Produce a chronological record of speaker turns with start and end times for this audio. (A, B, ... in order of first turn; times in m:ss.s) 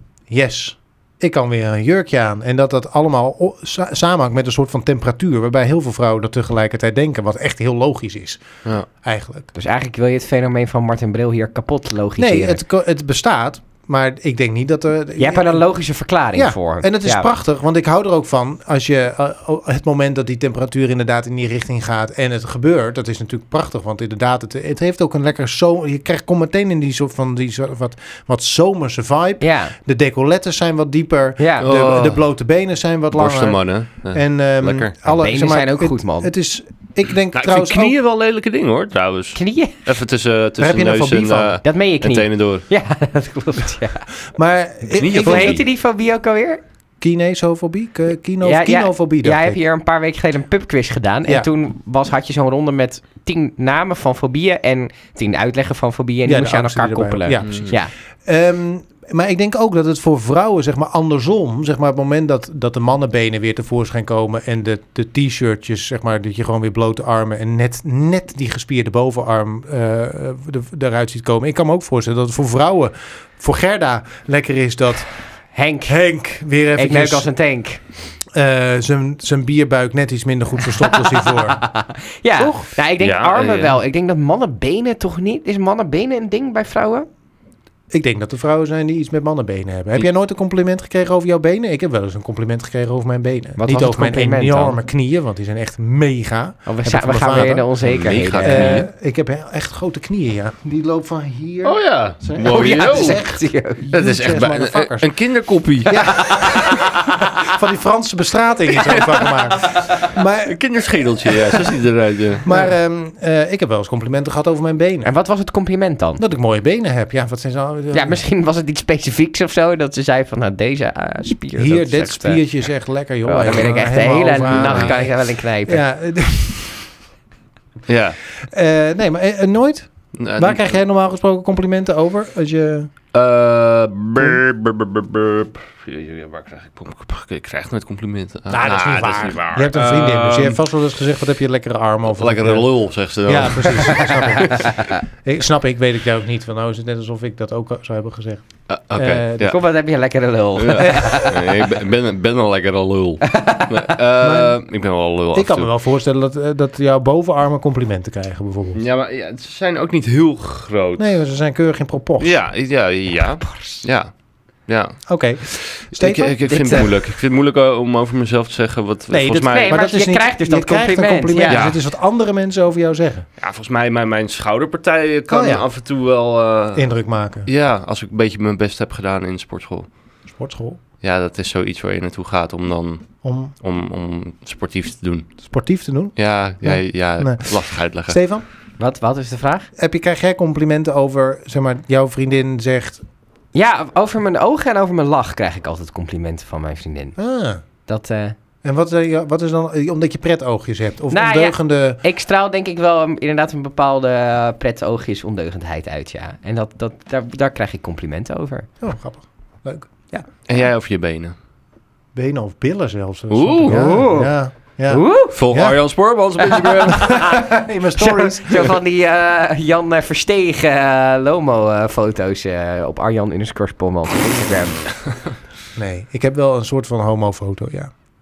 0:00.3-0:08.4 A
0:09.0-0:09.5 A
0:09.5-0:12.6 B
0:12.2-0:15.6 A
0:15.2-0:17.2 B
0:16.3-0:37.9 A
0:29.4-0:29.7 B
0:31.4-0:31.6 B
0:31.6-0:32.2 C
0:33.1-0:35.0 C
0:35.1-0:36.3 B
0:37.3-0:42.6 C
0:39.3-0:39.9 B
0:40.6-0:41.6 A
0:41.6-0:44.1 B
0:44.3-0:45.6 A
0:45.0-0:45.6 C
0:45.2-0:46.6 B
0:47.0-0:49.6 A
0:48.4-0:57.9 B
0:56.2-1:15.1 A
0:57.4-0:57.7 C
1:15.5-1:16.0 B
1:15.8-1:17.3 A
1:16.8-1:17.8 B
1:18.3-1:21.6 A
1:20.7-1:27.0 B
1:22.4-1:22.6 A
1:23.0-1:23.8 C
1:27.9-1:37.7 A
1:33.6-1:34.8 B
1:36.7-1:38.8 B
1:37.8-1:38.9 C
1:38.4-1:45.1 A
1:41.6-1:43.2 C
1:42.4-1:43.8 B
1:43.9-1:46.9 C
1:45.8-1:50.6 A
1:46.4-1:46.8 B
1:48.8-1:49.9 C
1:50.4-1:52.5 C
1:51.2-1:51.7 A
1:52.4-1:55.1 A
1:55.0-1:56.2 B
1:56.2-1:58.2 A
1:57.9-2:02.4 B
2:01.6-2:06.9 A
2:03.2-2:05.8 B
2:04.5-2:04.9 C
2:07.9-2:08.2 C
2:08.4-2:12.9 A
2:10.1-2:10.8 C
2:13.1-2:20.6 C
2:18.5-2:22.7 A
2:22.1-2:24.6 C
2:23.2-2:29.5 A
2:24.4-2:25.0 B
2:28.7-2:29.6 C
2:29.4-2:31.4 B
2:30.6-2:35.7 C
2:30.8-2:31.2 A
2:33.3-2:33.9 B
2:34.2-2:34.6 A
2:35.3-2:38.8 A
2:38.7-2:41.0 C
2:41.0-2:42.3 A
2:42.2-2:44.1 C
2:43.4-2:43.8 B
2:44.7-2:49.8 C
2:45.1-2:47.0 A
2:49.1-2:53.2 A
2:49.4-2:51.6 B
2:51.5-2:51.8 C
2:53.4-2:56.9 C
2:55.3-2:55.6 A
2:56.7-2:57.5 A
2:57.4-2:59.9 C
3:00.3-3:00.8 A
3:01.0-3:05.3 C
3:03.2-3:03.5 A
3:05.4-3:08.4 A
3:06.2-3:08.2 C
3:08.8-3:09.7 B
3:09.8-3:13.0 A
3:13.5-3:17.2 B
3:17.2-3:17.6 A
3:17.9-3:18.3 B
3:18.6-3:22.0 A
3:21.1-3:28.7 B
3:28.8-3:29.9 A
3:30.5-3:31.3 C
3:32.1-3:35.8 A
3:33.3-3:33.9 C
3:33.7-3:34.3 B
3:34.9-3:35.4 B
3:35.3-3:37.1 C
3:36.5-3:44.9 B
3:37.0-3:38.8 A
3:45.7-3:47.9 A